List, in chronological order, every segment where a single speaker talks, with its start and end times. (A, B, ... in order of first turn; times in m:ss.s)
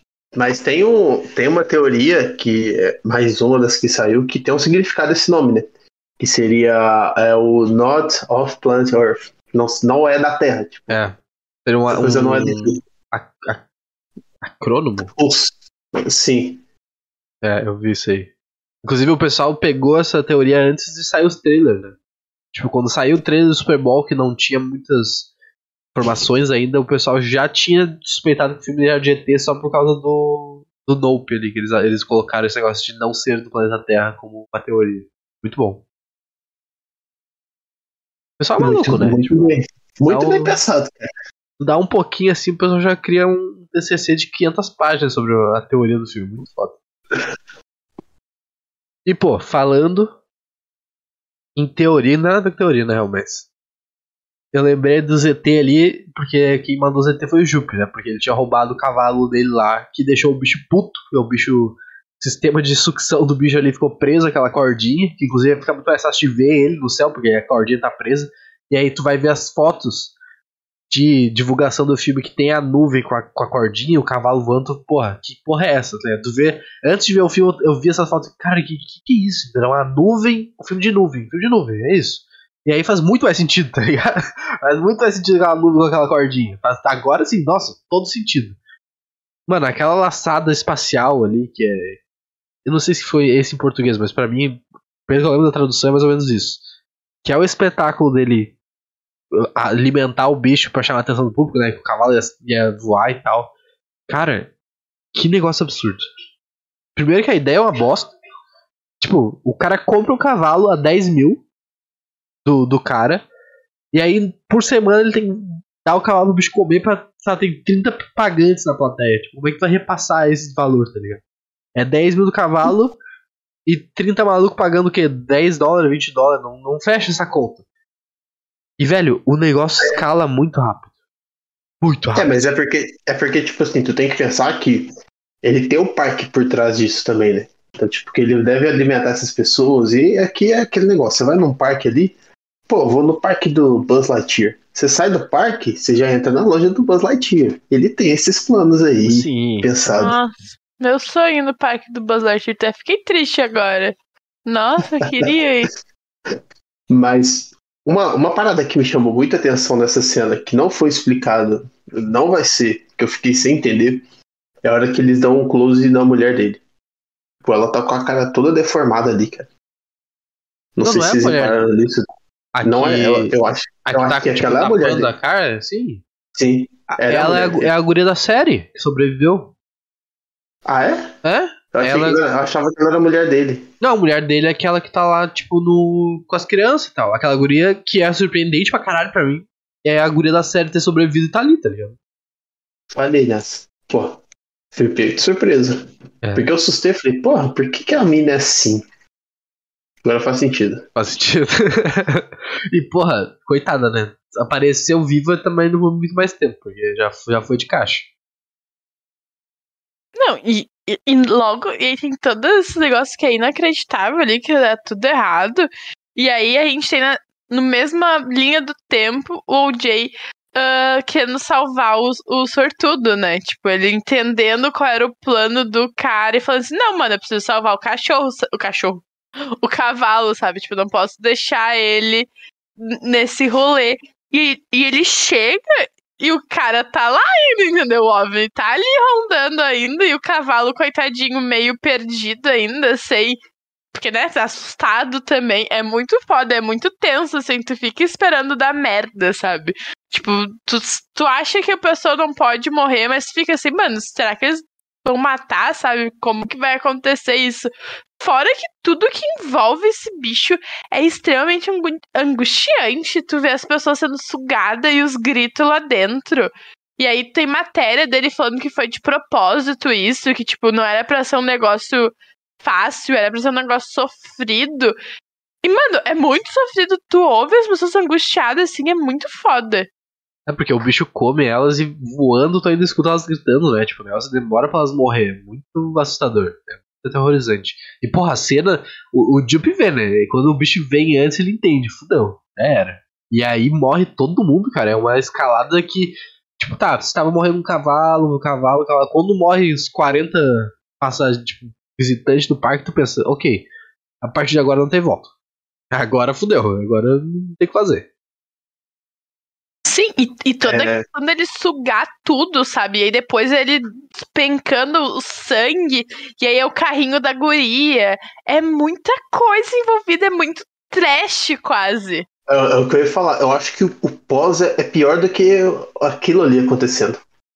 0:00.3-0:11.0 A
0:10.9-0:13.7 B
0:11.9-0:12.8 A
0:14.4-0:15.1 B
0:15.1-0:16.6 A
0:17.4-0:18.3 B
0:18.8-0:22.0 B
0:22.5-0:25.3 B
0:25.9-0:35.8 B
0:38.4-0:39.3 B
0:38.6-0:41.0 A
0:40.1-0:40.6 B
0:41.6-0:46.8 B
0:49.0-0:50.1 B
0:51.6-0:53.5 B
0:54.5-1:10.1 B
1:10.9-1:28.6 B
1:29.5-1:32.0 B
1:32.7-1:36.6 B
1:37.2-1:38.6 B
1:39.3-1:43.5 B
1:44.1-1:44.5 B
1:45.1-1:46.1 B
1:47.0-1:48.1 B
1:49.0-1:51.4 B
1:52.4-1:53.2 B
1:53.9-2:01.2 B
2:01.8-2:03.0 B
2:03.7-2:07.6 B
2:08.8-2:10.9 B
2:11.8-2:12.3 B
2:12.1-2:22.1 A
2:22.7-2:30.2 A
2:29.0-2:29.7 B
2:30.0-2:33.9 C
2:34.4-2:35.7 C
2:35.0-2:35.3 A
2:36.9-2:44.0 A
2:44.6-2:46.6 A
2:47.4-2:49.5 A
2:50.8-2:52.1 A
2:50.8-2:51.9 B
2:52.6-2:53.3 B
2:52.6-2:55.1 A
2:53.9-2:56.0 B
2:56.4-2:57.7 A
2:56.9-2:59.5 B
3:00.6-3:01.1 A
3:01.2-3:02.2 B
3:01.7-3:03.7 A
3:03.8-3:12.0 B
3:12.9-3:14.2 A
3:14.7-3:18.8 A
3:16.2-3:16.5 B
3:20.0-3:20.9 A
3:21.0-3:28.1 B
3:30.2-3:49.0 C
3:49.6-4:03.4 C
4:03.9-4:35.0 C
4:35.6-4:39.9 C
4:40.5-5:03.7 B
5:04.2-5:05.3 B
5:05.9-5:08.1 B
5:09.9-5:22.3 C
5:10.6-5:11.0 A
5:22.5-5:27.2 A